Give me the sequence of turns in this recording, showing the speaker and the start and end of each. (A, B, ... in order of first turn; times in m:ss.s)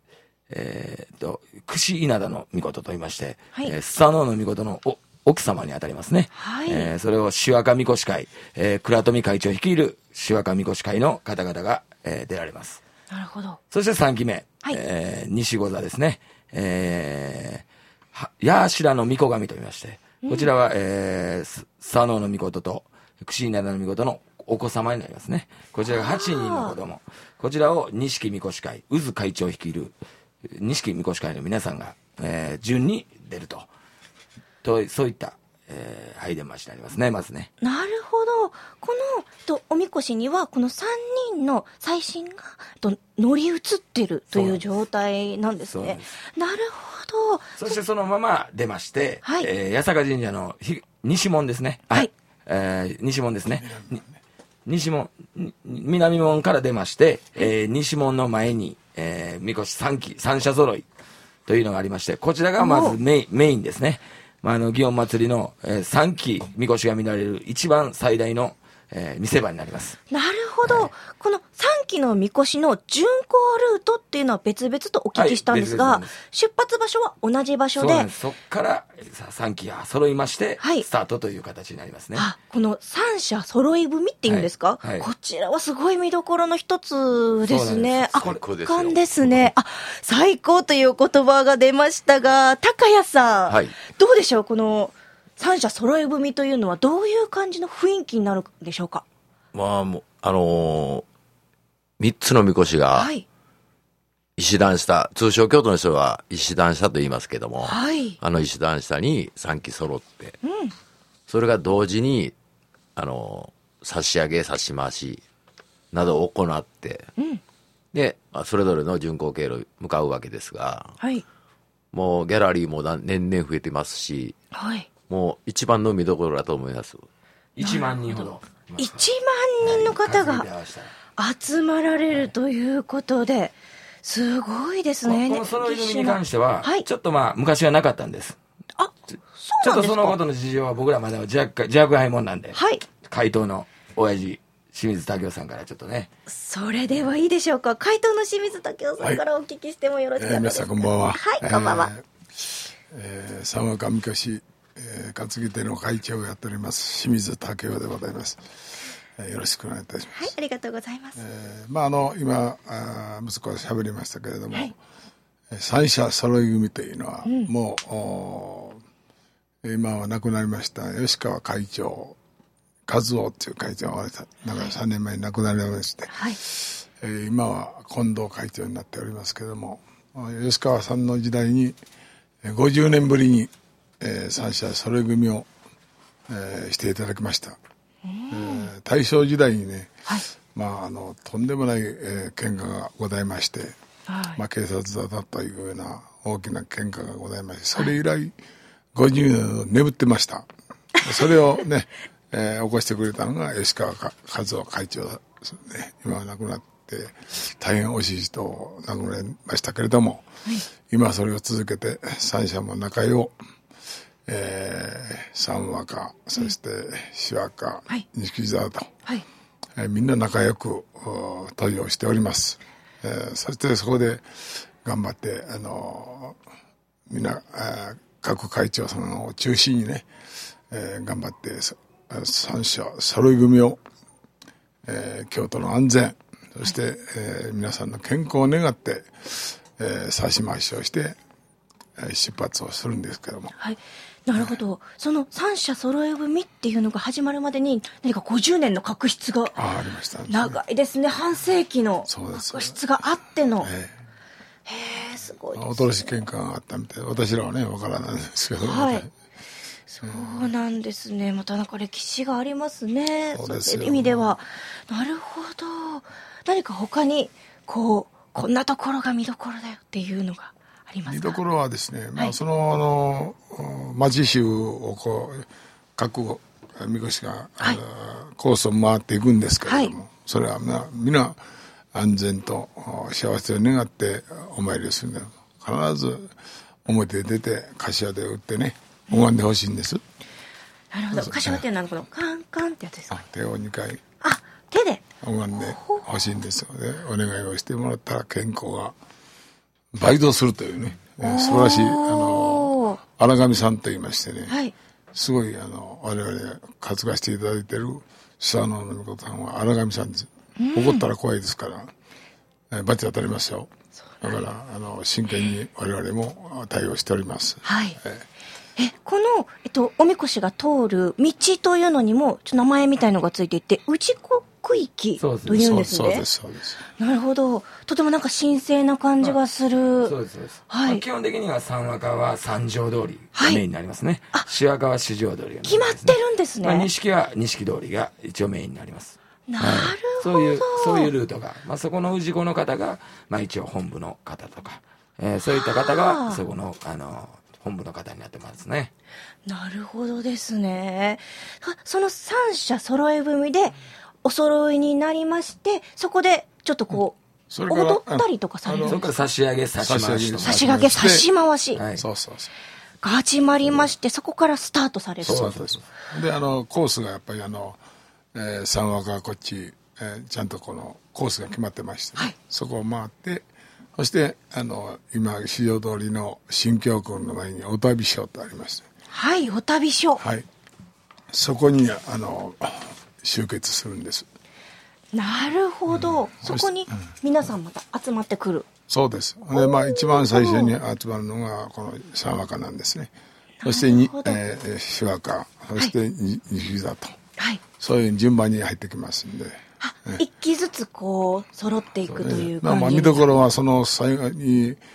0:00.5-0:12.8 A
0:06.3-0:06.9 B
0:13.1-0:13.6 B
0:13.7-0:30.0 A
0:20.2-0:20.5 B
0:25.8-0:26.8 B
0:30.5-0:33.7 A
0:34.6-0:37.5 A
0:37.6-0:47.8 B
0:44.3-0:44.6 A
0:45.7-0:46.1 A
0:47.6-0:54.0 A
0:49.2-0:49.5 B
0:53.6-0:54.2 C
0:54.6-1:00.8 A
1:01.4-1:10.0 A
1:02.6-1:03.0 B
1:10.1-1:18.1 B
1:10.6-1:10.9 A
1:15.1-1:16.1 A
1:17.8-1:22.3 A
1:20.6-1:20.8 B
1:22.1-1:39.0 B
1:24.2-1:25.1 A
1:27.4-1:28.4 A
1:28.1-1:29.5 D
1:33.5-1:33.7 D
1:39.5-1:41.0 D
1:42.0-1:43.1 D
1:42.9-1:43.2 B
1:44.4-1:50.4 D
1:47.6-1:48.2 B
1:50.4-1:50.7 B
1:51.3-1:52.3 D
1:53.0-1:55.2 D
1:55.9-1:57.1 D
1:57.9-2:01.0 D
2:01.9-2:04.4 D
2:04.5-2:04.9 B
2:05.1-2:07.0 D
2:07.6-2:09.1 A
2:07.6-2:10.4 B
2:09.6-2:10.9 A
2:11.2-2:16.8 B
2:15.0-2:18.4 A
2:18.8-2:20.2 B
2:19.6-2:26.1 A
2:22.5-2:22.8 B
2:26.3-2:31.9 B
2:30.2-2:38.4 C
2:39.2-2:40.3 C
2:40.1-2:41.2 B
2:41.2-2:44.7 C
2:45.5-2:48.8 C
2:47.2-2:47.5 B
2:49.6-2:52.2 C
2:52.9-3:01.8 C
2:56.1-2:56.4 B
3:02.4-3:05.5 C
3:06.3-3:07.6 C
3:08.0-3:08.7 B
3:08.3-3:09.9 C
3:10.5-3:13.7 C
3:14.1-3:14.4 B
3:14.4-3:18.3 C
3:18.9-3:20.5 C
3:21.0-3:30.3 C
3:30.8-3:33.3 C
3:34.3-3:38.9 C
3:39.8-3:46.4 C
3:47.1-3:50.0 C
3:50.7-3:53.8 C
3:54.8-4:01.2 C
4:02.0-4:03.5 C
4:03.6-4:09.6 B
4:09.5-4:10.6 C
4:10.3-4:13.7 B
4:12.1-4:12.8 C
4:13.6-4:14.0 C
4:14.6-4:16.2 B
4:15.5-4:19.1 C
4:18.6-4:19.0 B
4:19.9-4:31.4 B
4:20.0-4:20.5 C
4:23.3-4:24.3 C
4:31.1-4:41.4 C
4:39.6-4:39.9 B
4:41.9-4:46.3 C
4:46.8-4:50.0 C
4:50.9-4:53.2 B
4:51.1-4:51.6 C
4:53.1-4:54.0 C
4:54.2-4:56.0 B
4:55.2-4:58.9 C
4:59.9-5:04.5 C
5:01.2-5:03.0 B
5:04.5-5:04.7 B
5:05.1-5:11.9 C
5:10.6-5:11.0 B
5:12.7-5:13.7 C
5:14.2-5:18.2 C
5:17.6-5:18.0 B
5:18.8-5:26.2 B
5:25.2-5:25.8 A
5:25.5-5:26.8 C
5:27.0-5:30.1 B
5:30.0-5:48.9 A
5:30.7-5:31.0 B
5:33.4-5:33.6 B
5:35.6-5:36.9 B
5:39.5-5:41.1 B
5:45.4-5:46.4 B
5:49.4-5:57.2 B
5:57.5-5:59.0 C
5:57.7-5:59.0 B
5:58.8-6:00.8 A
5:59.8-6:01.3 C
6:00.4-6:01.8 B
6:01.7-6:02.0 A
6:01.9-6:02.5 C
6:03.0-6:05.7 B
6:05.2-6:05.8 A
6:05.2-6:07.8 C
6:08.3-6:13.4 C
6:14.0-6:18.8 C
6:19.1-6:20.2 B
6:20.2-6:20.5 C
6:21.3-6:24.3 C
6:25.1-6:28.7 B
6:26.4-6:26.7 C
6:28.9-6:33.1 C
6:29.5-6:30.7 B
6:33.6-6:34.4 B
6:33.6-6:37.2 C
6:37.4-6:37.6 B
6:37.8-6:40.2 C
6:39.8-6:43.4 B
6:42.1-6:42.4 A
6:42.2-6:44.8 C